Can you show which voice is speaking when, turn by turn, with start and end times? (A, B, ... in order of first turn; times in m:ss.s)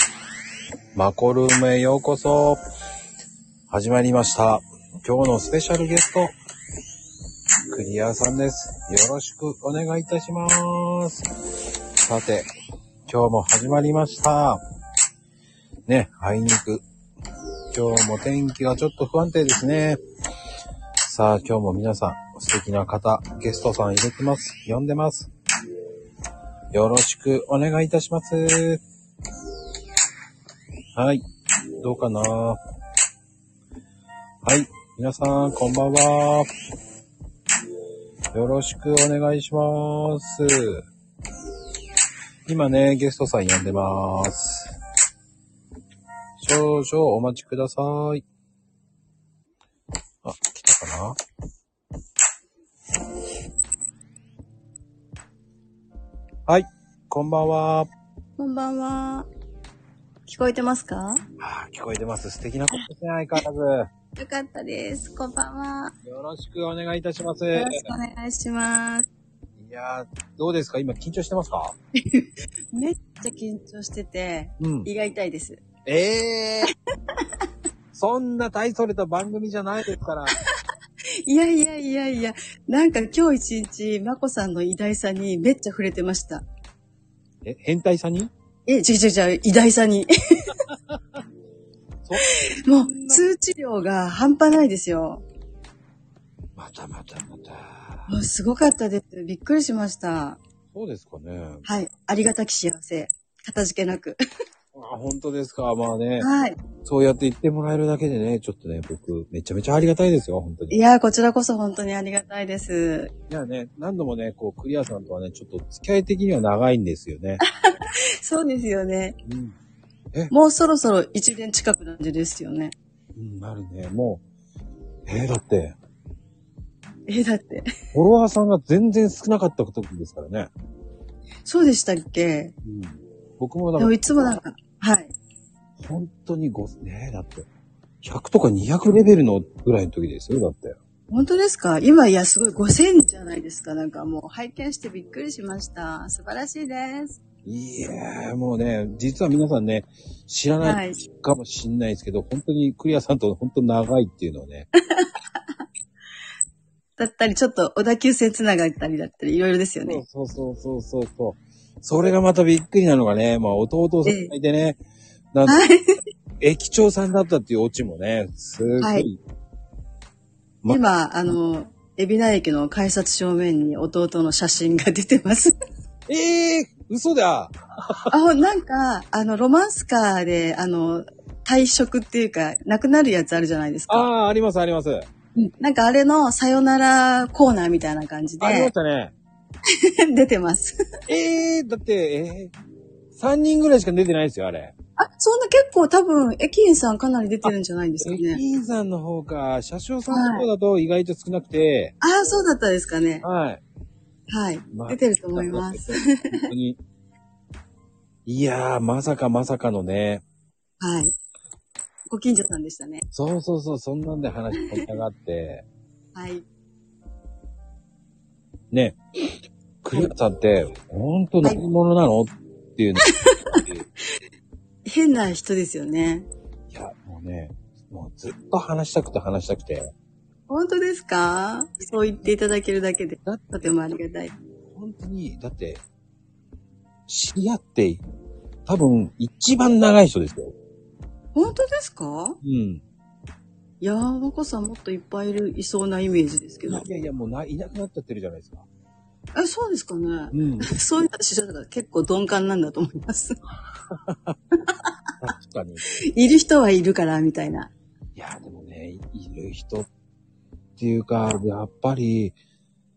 0:00.9-0:02.6 A
0:03.7-0:06.3 A
0:07.7-0:11.3 A
0:12.0-0:12.5 A
0:13.0-0:14.6 A
0:15.9-0:16.8 A
0:17.7-0:20.0 A
0:21.0-0:25.3 A
0:26.7-0:28.8 A
0:30.9-0:31.2 A
0:31.8-0:32.6 A
0:34.4-0:36.5 A
0:38.3-0:40.8 A
0:42.4-0:44.8 A
0:46.4-0:48.2 A
0:50.2-0:51.2 A
0:56.5-0:57.9 A
0:58.4-0:59.3 B
1:00.3-1:01.2 B
1:01.4-1:03.9 A
1:04.2-1:05.9 B
1:06.0-1:07.9 A
1:07.5-1:09.0 B
1:09.6-1:11.8 A
1:12.0-1:15.6 B
1:14.6-1:14.9 A
1:15.8-1:16.7 A
1:17.9-1:20.4 A
1:21.2-1:26.4 B
1:27.4-1:28.3 A
1:28.7-1:30.6 B
1:32.0-1:33.2 A
1:32.2-1:35.2 B
1:36.6-1:38.1 A
1:38.1-1:40.4 B
1:40.7-1:41.6 A
1:41.6-1:44.2 B
1:44.7-1:46.3 A
1:46.2-1:46.6 B
1:46.8-1:50.8 A
1:50.7-1:53.1 B
1:53.3-1:57.4 A
1:57.6-1:59.2 B
1:59.2-1:59.5 A
2:00.3-2:02.7 B
2:03.1-2:04.2 A
2:05.0-2:05.8 A
2:07.1-2:07.7 B
2:07.9-2:10.5 A
2:11.4-2:12.5 B
2:12.6-2:14.3 A
2:13.8-2:15.1 B
2:15.8-2:17.5 A
2:18.0-2:20.8 A
2:21.1-2:27.2 B
2:27.4-2:34.7 A
2:30.6-2:31.0 B
2:37.0-2:40.0 B
2:39.8-2:44.8 A
2:44.0-2:44.3 B
2:45.3-2:45.6 A
2:45.4-2:45.9 B
2:46.4-2:49.2 A
2:48.8-2:49.1 B
2:50.7-2:55.5 B
2:56.1-2:58.1 A
2:58.1-3:04.1 B
3:03.9-3:05.1 A
3:05.4-3:08.7 B
3:08.4-3:09.1 A
3:09.8-3:10.8 B
3:11.1-3:12.5 A
3:13.1-3:14.7 A
3:15.0-3:18.4 B
3:18.0-3:22.0 A
3:20.1-3:20.5 B
3:22.0-3:23.2 B
3:23.2-3:23.6 A
3:24.3-3:26.5 B
3:24.7-3:26.8 A
3:28.2-3:30.2 A
3:30.8-3:31.2 B
3:32.1-3:33.0 B
3:33.1-3:35.6 A
3:34.6-3:34.8 B
3:36.1-3:36.4 B
3:38.7-3:43.9 A
3:43.0-3:43.6 B
3:44.9-3:46.3 B
3:46.7-3:49.9 A
3:50.5-3:54.3 B
3:53.2-3:53.9 A
3:54.7-3:55.8 A
3:57.1-3:58.0 A
3:58.6-4:00.5 A
4:01.3-4:02.4 B
4:02.4-4:02.8 A
4:03.8-4:06.8 B
4:06.7-4:08.6 A
4:09.3-4:13.4 B
4:10.3-4:10.7 A
4:13.9-4:14.4 A
4:15.2-4:15.8 A
4:16.1-4:17.7 B
4:18.2-4:19.9 A
4:20.8-4:22.4 A